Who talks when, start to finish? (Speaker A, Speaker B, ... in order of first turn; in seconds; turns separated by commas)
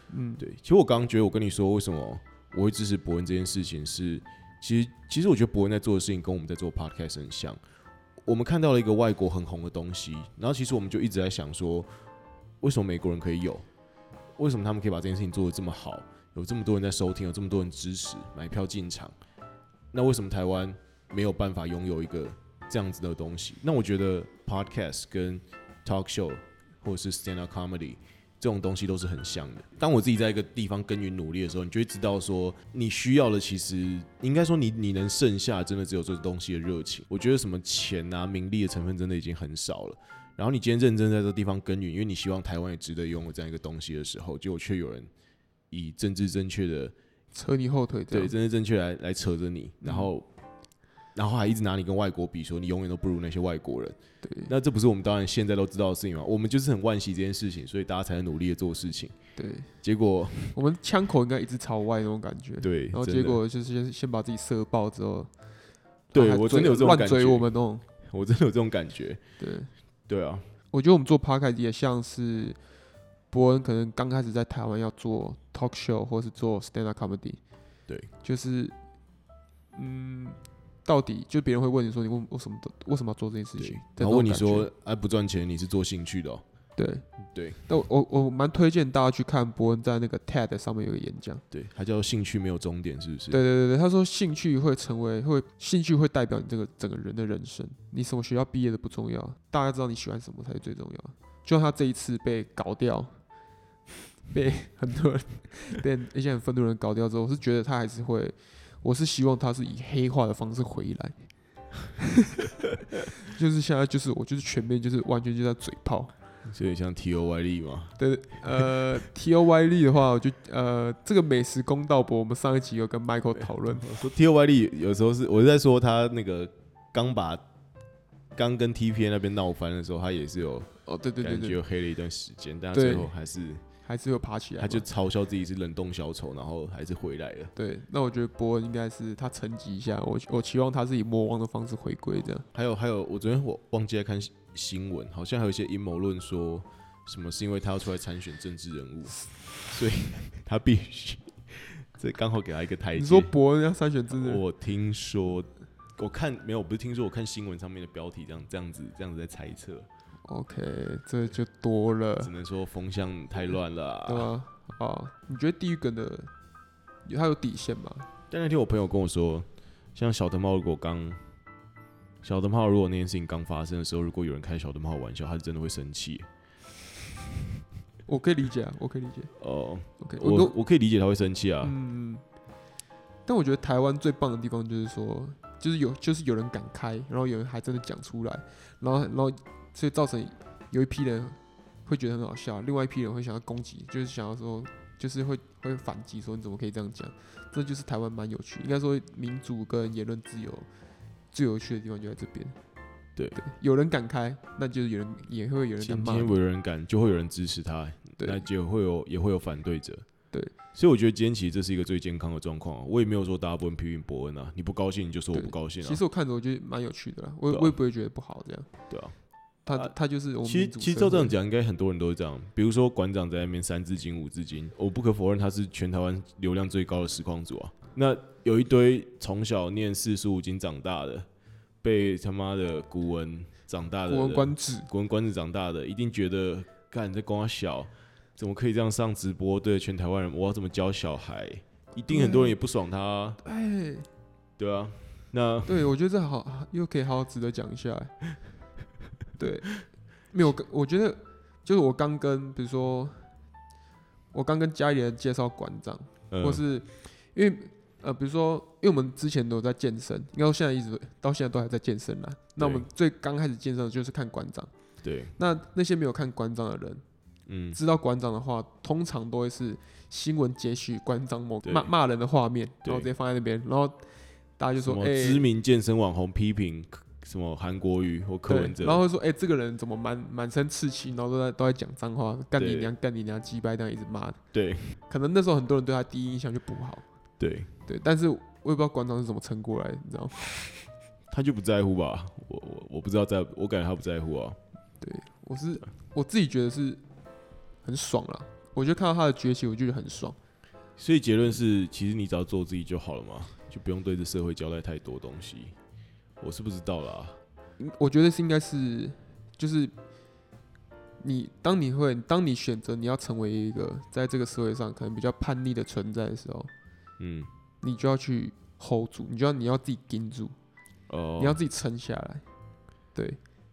Speaker A: 0.1-0.4, Speaker B: 0.4-7.6, Speaker B: 8.2-11.9, Speaker B: 12.6-13.7, Speaker B: 14.4-19.1, Speaker B: 19.9-45.1, Speaker B: 45.7-46.9, Speaker A: 47.3-48.3, Speaker B: 48.1-50.3, Speaker A: 49.8-50.1, Speaker B: 51.1-54.0, Speaker A: 54.2-54.5, Speaker B: 54.5-59.1, Speaker A: 59.4-59.7, Speaker B: 59.8-60.5, Speaker A: 60.5-65.3, Speaker B: 62.6-63.4, Speaker B: 66.1-67.5, Speaker A: 66.1-67.8, Speaker B: 68.0-69.2, Speaker A: 69.4-69.7, Speaker B: 70.1-70.5, Speaker A: 70.7-72.6, Speaker A: 73.3-77.4, Speaker A: 78.2-78.7, Speaker A: 79.7-84.7, Speaker B: 83.6-86.4, Speaker A: 86.8-87.0, Speaker B: 87.3-87.6, Speaker A: 87.7-91.4, Speaker B: 91.5-93.4, Speaker A: 93.3-103.1, Speaker A: 104.3-111.2, Speaker A: 112.0-112.4, Speaker A: 113.2-116.1, Speaker B: 116.5-118.0, Speaker A: 118.0-123.9, Speaker B: 123.4-127.4, Speaker B: 128.3-133.6, Speaker A: 130.8-131.6, Speaker A: 132.7-133.1, Speaker A: 133.8-134.8, Speaker B: 134.6-137.5, Speaker A: 137.5-142.4, Speaker B: 142.5-153.3, Speaker A: 152.9-154.4, Speaker B: 154.1-159.9, Speaker A: 160.2-162.3, Speaker B: 162.2-164.3, Speaker A: 164.1-166.3, Speaker A: 167.0-168.1, Speaker B: 168.3-171.2, Speaker B: 172.2-176.3, Speaker A: 178.1-179.3, Speaker B: 179.4-181.7, Speaker A: 180.0-180.5, Speaker A: 181.6-182.2, Speaker A: 183.2-200.7, Speaker A: 201.3-202.6, Speaker A: 203.3-206.3, Speaker B: 205.8-210.0, Speaker B: 210.7-216.0, Speaker A: 215.3-218.7, Speaker B: 218.9-219.2, Speaker A: 219.6-221.3, Speaker B: 219.7-231.3, Speaker B: 231.8-243.4, Speaker A: 234.1-234.9, Speaker A: 242.1-242.6, Speaker A: 243.4-244.1, Speaker B: 244.6-245.9, Speaker A: 245.7-248.2, Speaker A: 249.4-253.3, Speaker A: 254.3-264.7, Speaker B: 256.3-256.6, Speaker B: 262.6-262.9, Speaker B: 265.0-265.3, Speaker A: 265.4-267.0, Speaker B: 267.5-267.8, Speaker A: 267.7-275.4, Speaker B: 271.6-271.9, Speaker B: 272.8-273.1, Speaker B: 274.8-279.0, Speaker A: 278.5-284.4, Speaker B: 282.6-282.9, Speaker B: 284.5-285.0, Speaker A: 285.1-287.1, Speaker B: 287.4-287.7, Speaker A: 287.9-290.6, Speaker B: 291.3-294.6, Speaker A: 295.0-297.0, Speaker A: 297.8-300.4, Speaker B: 301.0-305.8, Speaker B: 306.4-307.4, Speaker A: 307.8-309.9, Speaker A: 311.2-316.7, Speaker B: 317.2-317.5, Speaker A: 317.8-320.5, Speaker B: 321.1-321.6, Speaker A: 321.4-322.4, Speaker A: 323.1-323.4